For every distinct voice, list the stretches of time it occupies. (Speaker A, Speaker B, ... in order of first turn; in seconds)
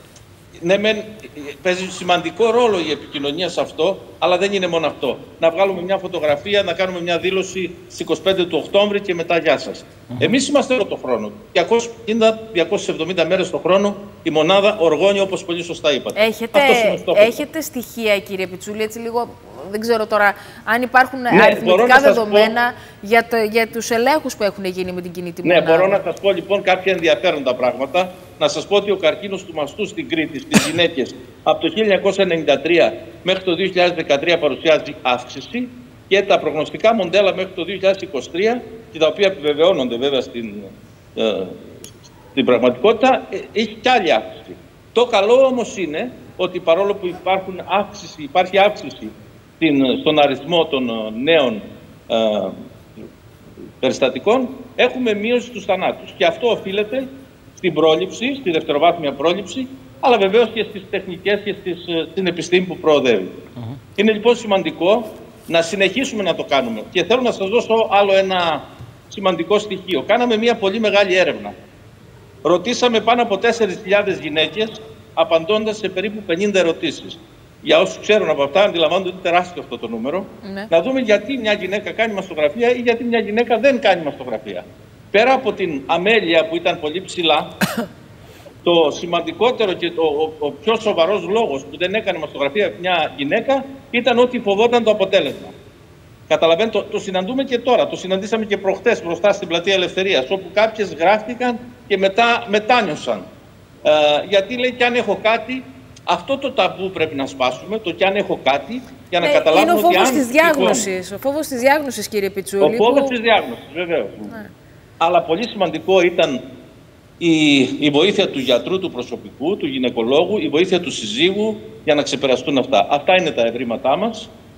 Speaker A: 0.6-17.4, 21.3-22.5, 25.4-52.6, 53.8-63.4, 64.0-71.5, 72.4-87.5, 88.6-95.5, 96.3-103.3, 103.8-110.9, 112.6-114.3, 115.0-116.4, 117.2-124.3
Speaker B: 16.2-26.0, 80.4-80.7, 109.2-113.2